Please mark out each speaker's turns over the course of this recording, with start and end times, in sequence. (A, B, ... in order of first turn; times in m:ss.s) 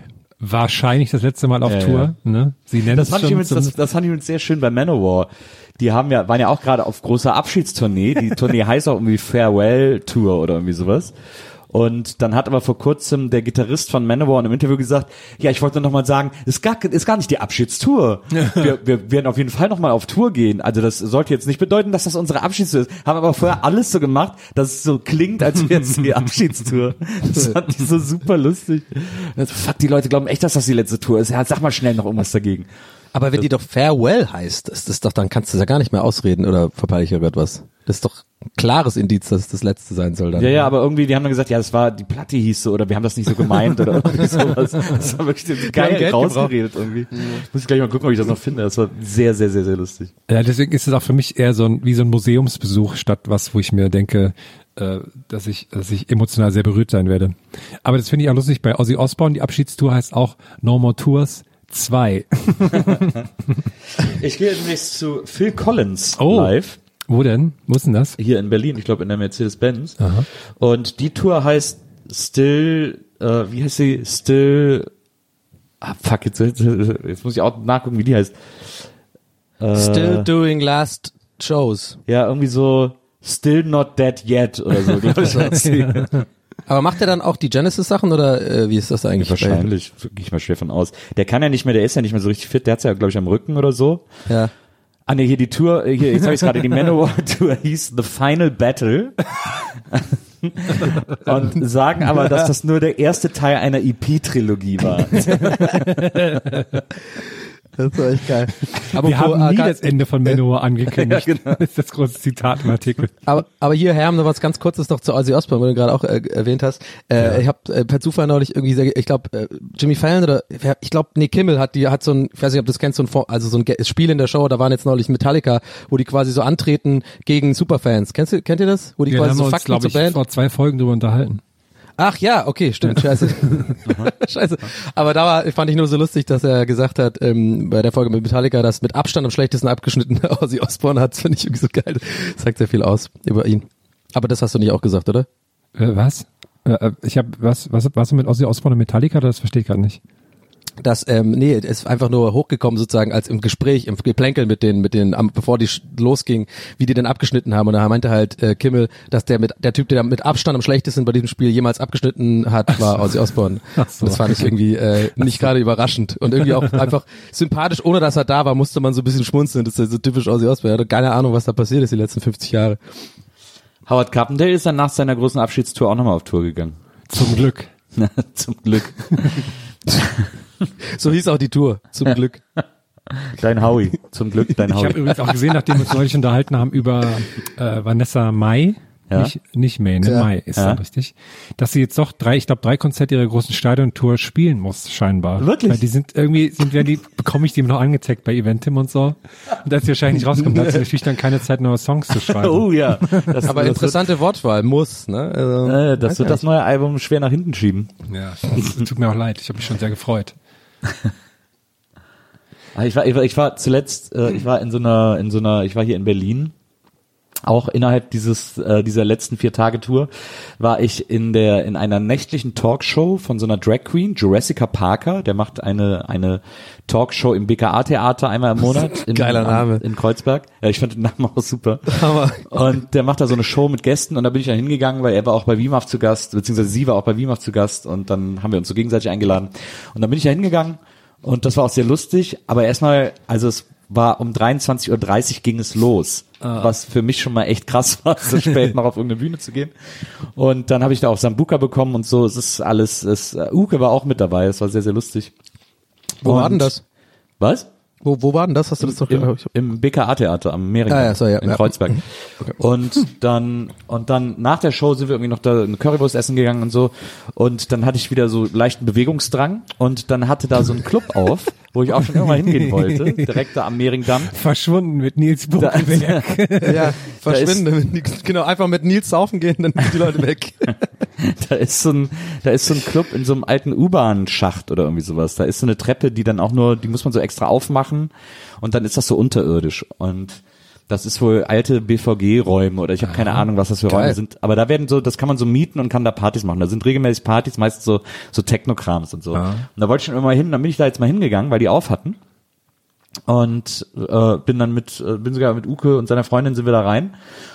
0:00.4-0:03.7 A
0:01.6-0:02.1 B
0:02.9-0:11.1 B
0:11.7-0:32.7 B
0:33.1-0:40.7 C
0:40.4-0:50.1 B
0:45.6-0:46.6 C
0:50.3-1:03.1 A
1:04.0-1:06.8 B
1:06.2-1:06.5 A
1:07.1-1:08.2 A
1:08.2-1:10.1 B
1:10.0-1:10.3 A
1:10.6-1:14.9 B
1:15.8-1:18.9 B
1:19.6-1:20.3 B
1:19.7-1:22.0 C
1:22.1-1:26.2 B
1:25.2-1:25.6 C
1:25.5-1:26.2 A
1:26.7-1:29.7 C
1:29.2-1:34.1 B
1:35.1-1:45.9 B
1:42.1-1:42.5 C
1:45.3-1:46.8 A
1:47.8-1:50.4 C
1:48.9-1:53.1 A
1:50.9-1:51.6 B
1:53.3-2:10.2 C
2:09.1-2:11.4 A
2:12.0-2:25.3 C
2:12.9-2:13.8 A
2:25.8-2:30.0 A
2:30.8-2:52.8 C
2:42.7-2:43.1 A
2:43.8-2:44.5 A
2:53.9-2:56.8 B
2:57.1-2:57.7 A
2:58.0-3:00.3 B
3:01.0-3:02.4 C
3:03.2-3:05.3 B
3:04.7-3:23.4 A
3:10.0-3:10.3 C
3:15.4-3:15.8 B
3:22.3-3:24.0 B
3:23.5-3:26.4 C
3:25.7-3:27.9 B
3:28.1-3:30.4 A
3:32.8-3:36.5 B
3:37.5-4:15.3 B
3:48.8-3:49.8 C
3:51.9-3:52.6 C
4:06.4-4:06.7 A
4:16.2-4:16.8 C
4:16.2-4:16.7 B
4:17.4-4:17.7 B
4:18.0-4:19.5 C
4:18.8-4:34.3 B
4:20.9-4:22.5 C
4:32.2-4:33.2 A
4:34.3-4:36.9 A
4:35.6-4:37.6 B
4:36.6-4:40.8 C
4:41.2-5:02.2 B
4:53.9-4:54.2 C
4:59.4-4:59.7 A
5:03.3-5:07.2 B